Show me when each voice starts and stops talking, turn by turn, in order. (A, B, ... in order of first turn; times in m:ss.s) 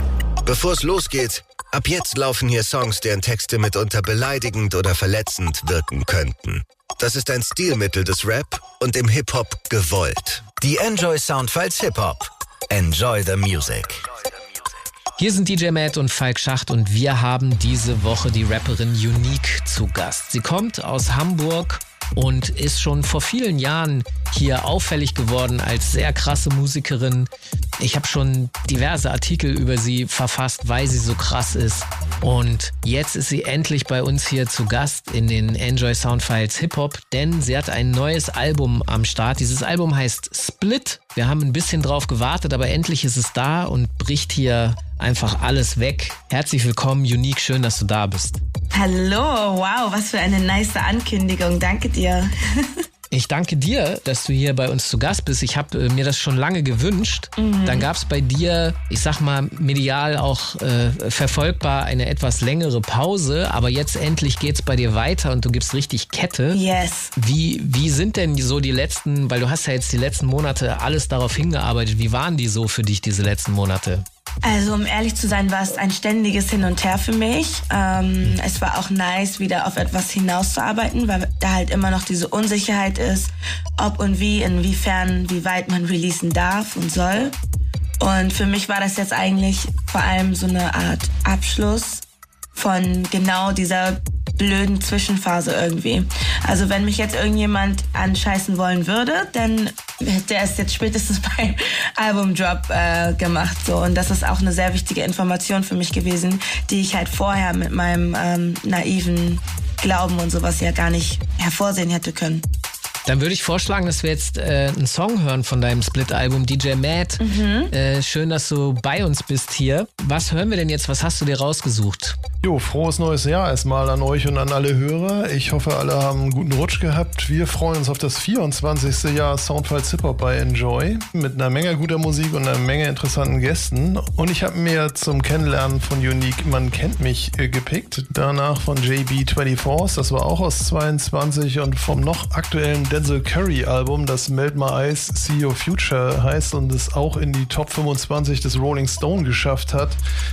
0:00.4-0:14.0 A
0:15.2-0:48.4 B
0:48.7-0:52.3 C
0:53.1-1:06.6 B
0:57.4-0:57.9 C
1:06.5-1:07.1 C
1:07.2-1:14.0 B
1:14.4-1:27.3 C
1:28.0-1:32.0 C
1:32.6-1:52.4 C
1:53.1-2:02.2 B
1:57.2-1:57.7 C
2:02.4-2:30.0 D